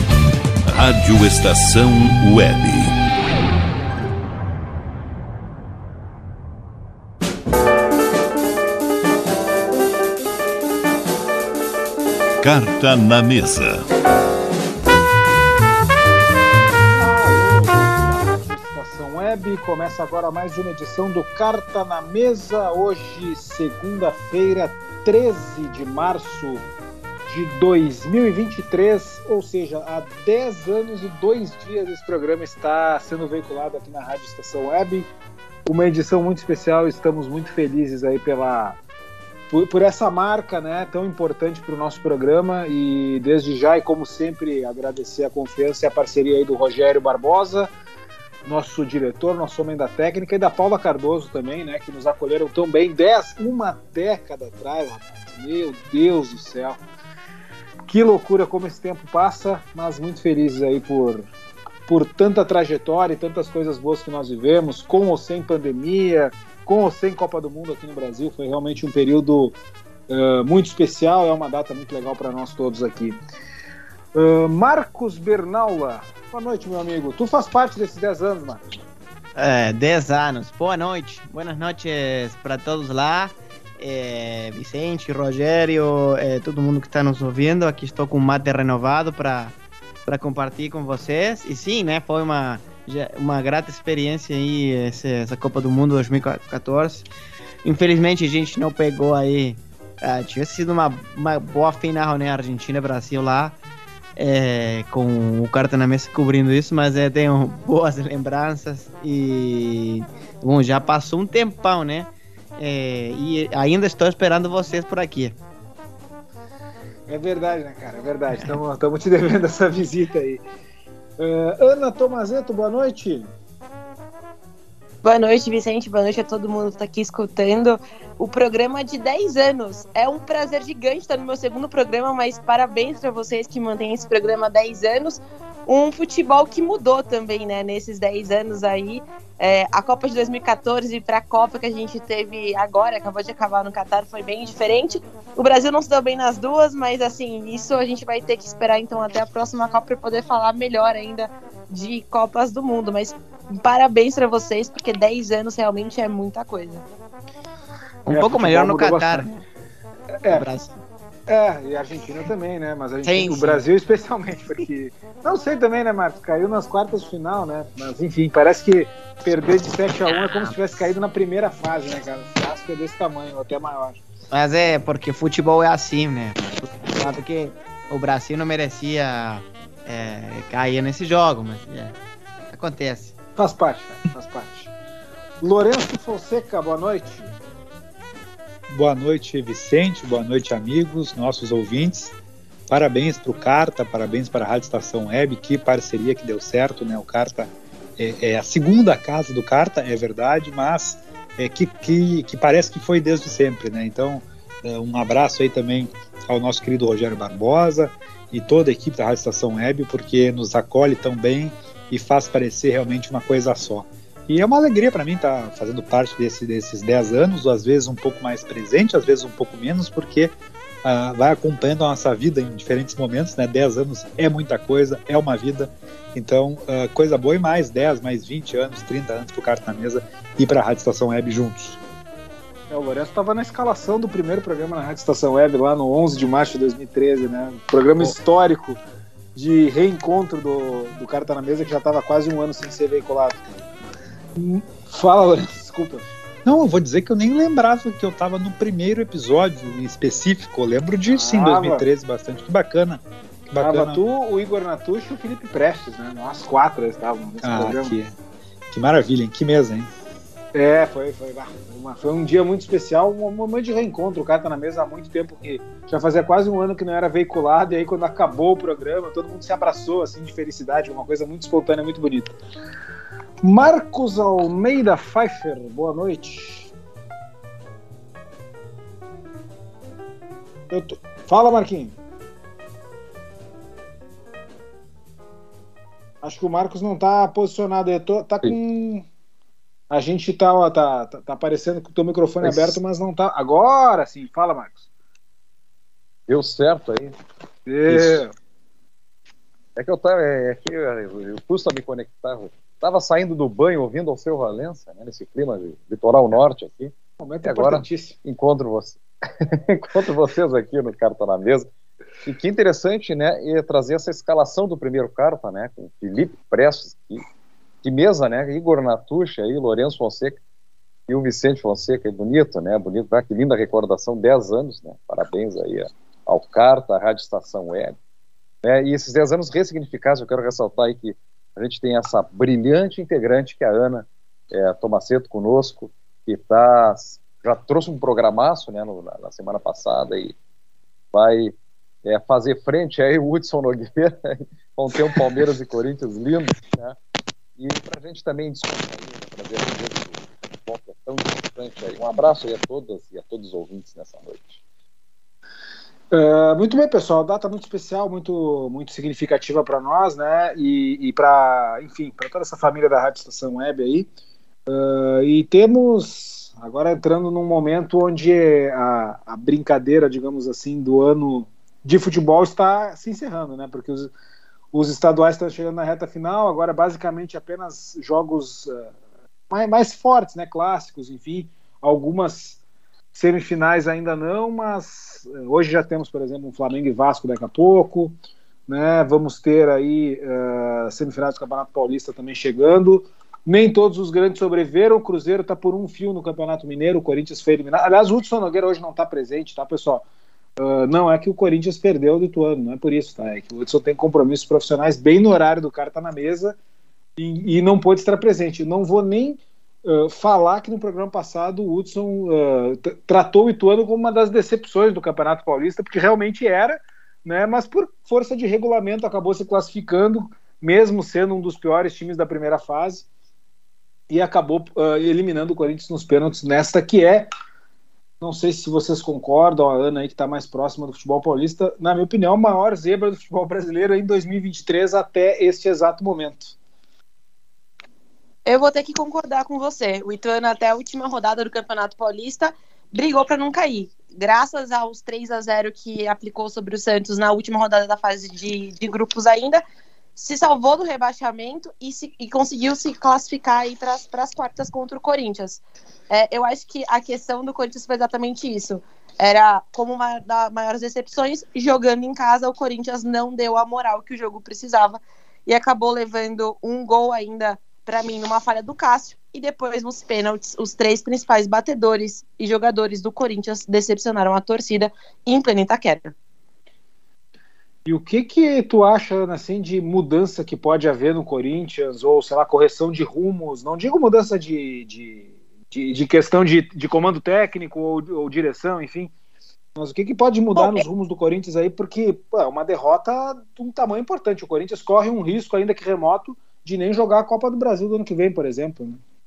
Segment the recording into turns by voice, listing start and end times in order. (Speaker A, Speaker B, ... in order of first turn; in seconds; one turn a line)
Speaker A: 0.6-2.9
Speaker A: 12.4-13.8
Speaker B: 16.9-26.7
Speaker B: 27.2-35.1
Speaker B: 35.6-38.8
Speaker B: 39.5-47.7
Speaker B: 48.4-56.8
Speaker B: 57.9-61.3
Speaker B: 61.9-69.5
Speaker B: 70.1-73.2
Speaker B: 74.1-78.6
Speaker C: 79.3-97.1
Speaker C: 97.6-103.6
Speaker C: 104.2-115.4
Speaker B: 117.1-120.4
Speaker B: 121.2-123.3
Speaker D: 125.0-156.8
Speaker C: 158.1-159.4
Speaker B: 158.1-159.3
Speaker C: 160.3-160.8
Speaker B: 161.3-174.0
Speaker C: 163.0-163.6
Speaker C: 170.1-170.5
Speaker C: 174.3-182.0
Speaker C: 182.5-183.1
Speaker B: 183.4-184.7
Speaker B: 185.4-187.3
Speaker E: 188.7-192.1
Speaker E: 192.7-220.3
Speaker E: 220.8-231.8
Speaker B: 232.7-238.8
Speaker B: 239.3-243.5
Speaker B: 244.4-246.1
Speaker E: 246.4-254.0
Speaker B: 251.1-251.8
Speaker B: 253.6-257.9
Speaker E: 257.4-258.1
Speaker E: 258.7-259.9
Speaker B: 260.5-272.4
Speaker B: 273.4-276.7
Speaker B: 280.7-282.0
Speaker B: 286.2-289.1
Speaker B: 289.9-294.8
Speaker F: 292.4-292.8
Speaker F: 296.3-297.1
Speaker B: 297.7-298.3
Speaker F: 297.9-298.2
Speaker F: 299.8-309.0
Speaker B: 307.2-308.1
Speaker F: 309.7-311.7
Speaker F: 312.2-317.2
Speaker F: 317.8-320.4
Speaker F: 321.1-328.0
Speaker F: 328.6-340.3
Speaker F: 341.1-347.0
Speaker F: 347.6-354.6
Speaker B: 356.1-364.1
Speaker B: 364.7-374.1
Speaker B: 374.7-378.9
Speaker B: 379.5-382.6
Speaker B: 383.1-388.1
Speaker B: 388.7-400.0
Speaker B: 400.6-406.6
Speaker B: 407.2-423.1
Speaker B: 424.1-427.3
Speaker B: 428.2-436.6
Speaker D: 438.4-449.6
Speaker D: 450.1-476.1
Speaker B: 477.9-489.1
Speaker B: 489.8-499.0
Speaker D: 490.6-490.9